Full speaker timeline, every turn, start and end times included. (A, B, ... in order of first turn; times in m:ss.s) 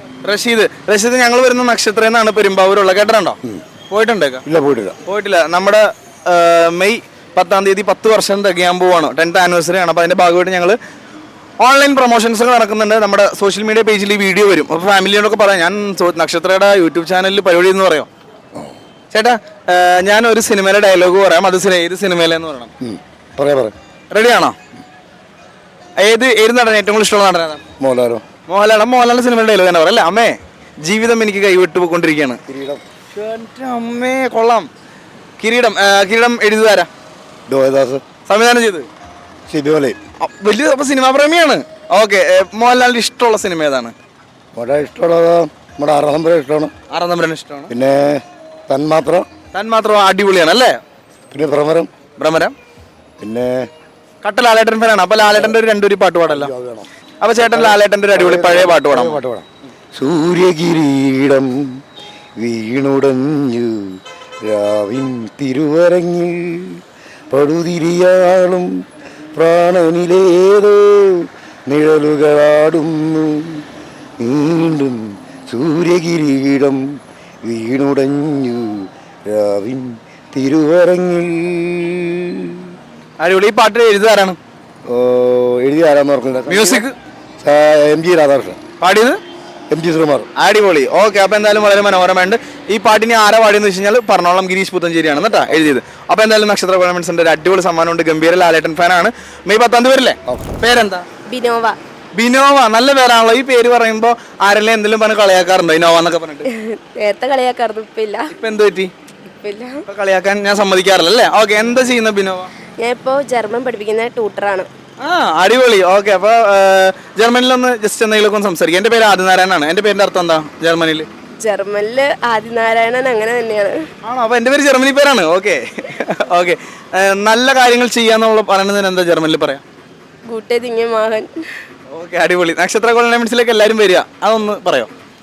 0:00.2-0:03.4 A
0:03.9-0:04.4 A
0:04.4-0:05.0 B
0:05.1-0:10.8 A
0:11.6-0:18.1 A
0:19.1-0:22.7 A
0:22.8-0:23.7 B
0:24.1-0:24.6 A
0:26.0-0:27.6 A
0:27.8-0:28.2 B
0:28.5-0:32.4 A
0:32.5-0:32.8 B
0:33.1-0:34.7 A
0:35.4-0:36.9 A
0:37.5-0:38.0 B
0:38.3-0:38.9 A
0:39.5-0:40.0 B
0:40.2-0:43.9 A
0:44.6-0:46.7 B
0:46.9-0:47.7 A
0:47.7-0:49.3 B
0:49.5-0:50.8 A
0:51.3-0:51.9 B
0:52.2-0:52.5 A
0:53.2-0:53.7 B
0:54.2-0:56.5 A
0:55.3-0:55.6 B
0:56.3-0:56.9 B
0:57.2-0:59.2 A
0:57.4-1:01.7 B
1:02.4-1:08.7 B
1:09.4-1:13.6 B
1:14.2-1:16.9 B
1:17.4-1:22.6 B
1:23.2-1:24.4 A
1:24.9-1:26.8 B
1:26.5-1:26.9 A
1:27.4-1:28.6 B
1:28.8-1:29.2 A
1:29.7-1:30.3 B
1:30.4-1:41.0 A
1:41.3-1:41.8 C
1:42.2-1:46.5 A
1:46.5-1:48.3 C
1:48.3-1:48.9 A
1:49.4-1:49.8 C
1:49.9-1:52.5 A
1:52.8-1:54.7 C
1:55.0-2:01.1 A
2:01.4-2:03.8 C
2:04.0-2:09.6 A
2:10.3-2:11.3 C
2:11.9-2:14.9 A